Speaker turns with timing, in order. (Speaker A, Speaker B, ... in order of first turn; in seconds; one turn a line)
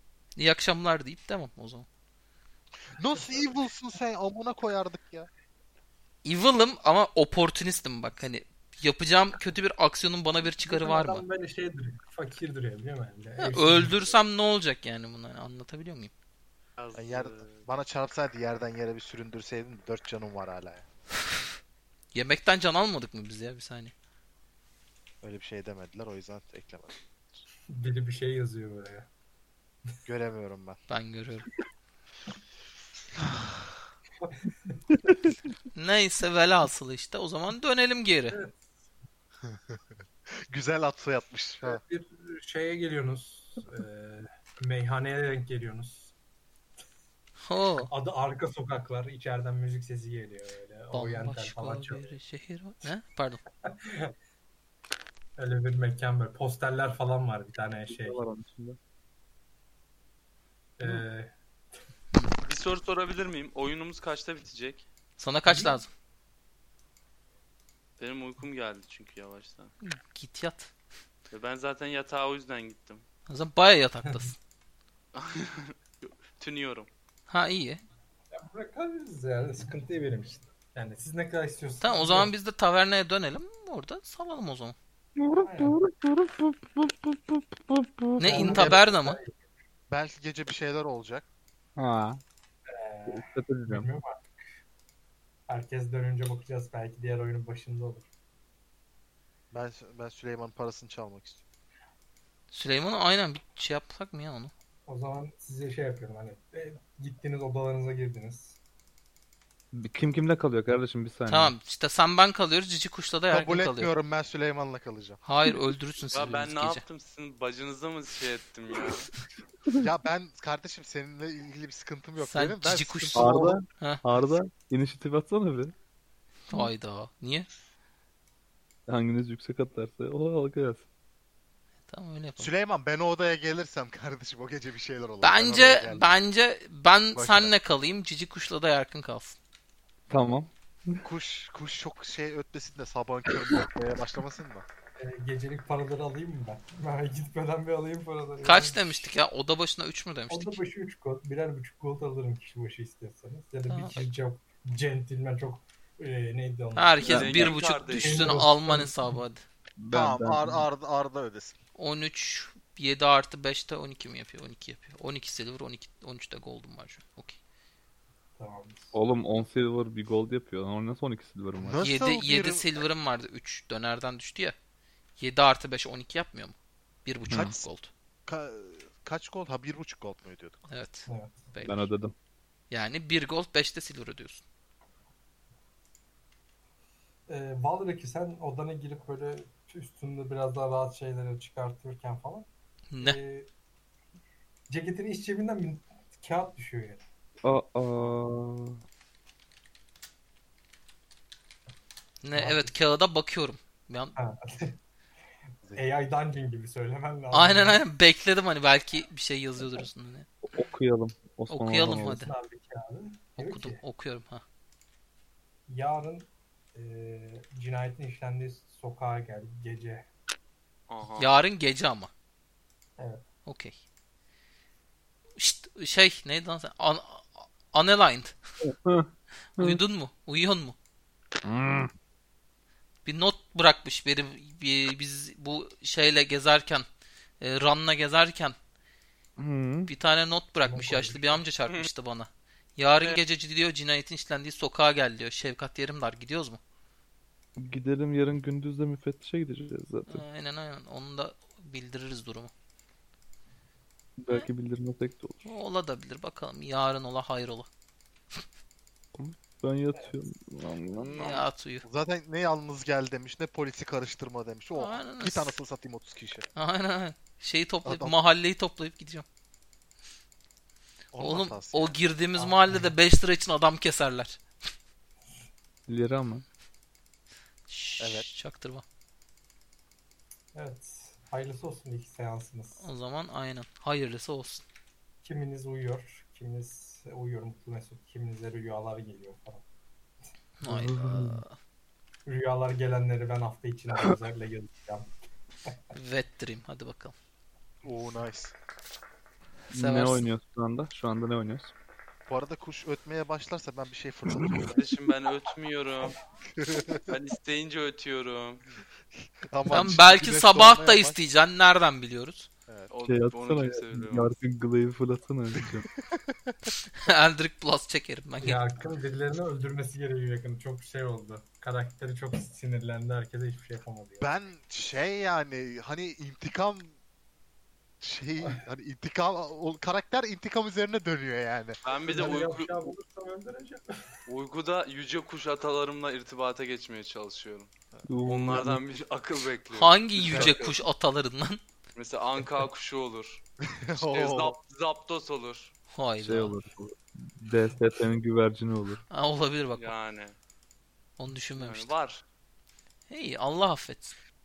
Speaker A: 0.4-1.9
Speaker B: 3.0-5.3
Speaker A: 6.2-11.2
Speaker C: 10.6-14.0
Speaker A: 13.4-16.1
Speaker D: 16.8-17.6
Speaker B: 16.9-20.9
Speaker A: 22.1-23.9
Speaker B: 25.2-27.4
Speaker C: 27.7-29.1
Speaker B: 30.1-30.8
Speaker A: 30.9-31.5
Speaker C: 34.2-34.8
Speaker A: 35.7-38.4
Speaker C: 38.3-38.9
Speaker B: 39.5-39.8
Speaker B: 40.5-41.8
Speaker C: 41.6-46.1
Speaker A: 47.4-47.9
Speaker C: 47.9-52.2
Speaker A: 50.9-53.4
Speaker C: 53.6-54.1
Speaker C: 55.4-58.2
Speaker E: 57.9-58.8
Speaker C: 60.8-61.3
Speaker D: 62.4-64.9
Speaker A: 65.2-65.9
Speaker C: 65.5-65.8
Speaker D: 68.0-69.7
Speaker A: 69.8-70.7
Speaker D: 71.3-73.0
Speaker A: 73.3-74.4
Speaker D: 75.2-76.9
Speaker A: 77.3-77.8
Speaker C: 78.3-82.3
Speaker A: 81.8-84.8
Speaker E: 85.2-88.5
Speaker C: 85.4-85.8
Speaker A: 88.2-89.2
Speaker C: 88.2-89.4
Speaker B: 88.5-88.8
Speaker B: 89.9-91.3
Speaker E: 91.8-92.2
Speaker C: 92.7-94.2
Speaker E: 93.1-93.9
Speaker C: 95.5-98.1
Speaker B: 99.5-101.5
Speaker A: 102.5-104.5
Speaker C: 104.9-108.6
Speaker E: 109.7-111.6
Speaker A: 111.3-113.9
Speaker B: 113.3-115.2
Speaker A: 115.2-116.8
Speaker D: 116.1-119.1
Speaker B: 119.8-123.7
Speaker A: 122.2-124.0
Speaker E: 123.2-125.7
Speaker A: 126.5-127.5
Speaker E: 128.9-130.9
Speaker A: 131.9-132.5
Speaker B: 132.4-136.2
Speaker A: 135.2-139.4
Speaker B: 137.1-137.5
Speaker E: 140.1-141.0
Speaker B: 141.0-144.7
Speaker C: 145.0-149.1
Speaker A: 148.4-150.6
Speaker C: 150.3-159.2
Speaker A: 153.7-154.1
Speaker A: 156.8-159.5
Speaker D: 157.0-158.4
Speaker E: 157.1-157.5
Speaker E: 159.8-160.7
Speaker B: 159.9-161.6
Speaker A: 161.8-167.4
Speaker C: 168.4-168.9
Speaker E: 168.9-171.9
Speaker B: 171.6-172.8
Speaker A: 171.8-174.6
Speaker A: 175.2-177.9
Speaker B: 177.3-177.7
Speaker B: 178.3-180.6
Speaker A: 180.7-181.9
Speaker C: 181.1-181.7
Speaker E: 181.7-182.1
Speaker A: 182.7-184.4
Speaker C: 187.3-192.5
Speaker A: 192.9-193.2
Speaker C: 193.0-193.5
Speaker C: 194.7-197.0
Speaker E: 197.4-198.8
Speaker A: 202.2-204.2
Speaker C: 202.3-202.7
Speaker C: 204.2-204.8
Speaker C: 205.8-207.9
Speaker A: 207.3-210.3
Speaker E: 210.4-212.2
Speaker A: 211.5-212.3
Speaker C: 212.0-213.8
Speaker A: 213.4-214.4
Speaker C: 215.7-220.1
Speaker D: 220.9-221.3
Speaker A: 221.2-222.1
Speaker C: 223.0-223.2
Speaker A: 223.5-223.8
Speaker A: 225.4-228.4
Speaker E: 228.6-229.8
Speaker A: 229.6-230.8
Speaker E: 231.4-231.9
Speaker A: 233.1-236.9
Speaker A: 237.4-238.6
Speaker E: 239.4-239.9
Speaker A: 239.9-246.6
Speaker C: 240.6-241.4
Speaker E: 247.6-250.2
Speaker A: 250.1-252.5
Speaker E: 254.2-255.6
Speaker A: 255.4-257.7
Speaker E: 259.1-261.4
Speaker A: 261.1-261.8
Speaker B: 261.8-266.5
Speaker A: 264.7-265.6
Speaker A: 266.5-269.3
Speaker B: 267.9-268.2
Speaker B: 271.1-272.0
Speaker A: 271.2-274.4
Speaker C: 272.4-272.9
Speaker E: 275.9-276.4
Speaker A: 277.7-278.8
Speaker B: 278.0-278.3
Speaker C: 280.5-282.9
Speaker A: 282.8-284.6
Speaker C: 285.2-289.6
Speaker A: 290.6-291.6
Speaker E: 290.6-291.4
Speaker C: 292.3-295.1
Speaker A: 295.9-297.1
Speaker B: 297.8-298.5
Speaker E: 299.7-301.7
Speaker A: 299.7-300.2
Speaker B: 302.3-304.9
Speaker D: 304.8-306.2
Speaker B: 306.6-307.1
Speaker D: 307.1-308.6
Speaker B: 309.5-311.2
Speaker A: 309.7-312.5
Speaker D: 312.9-314.3
Speaker E: 313.0-315.9
Speaker B: 316.1-316.7
Speaker A: 317.0-318.6
Speaker C: 318.4-324.4
Speaker B: 324.2-327.0
Speaker B: 328.0-331.8
Speaker D: 331.8-332.7
Speaker C: 332.1-334.2
Speaker D: 334.3-337.7
Speaker E: 338.1-338.8
Speaker D: 338.2-340.8
Speaker A: 339.8-341.6
Speaker B: 340.3-340.6
Speaker D: 341.9-343.4
Speaker B: 343.6-344.6
Speaker D: 344.0-345.7
Speaker A: 345.9-346.6
Speaker E: 346.2-349.0
Speaker A: 349.1-349.9
Speaker D: 349.8-350.4
Speaker A: 351.2-351.9
Speaker D: 351.6-352.2
Speaker A: 353.1-354.1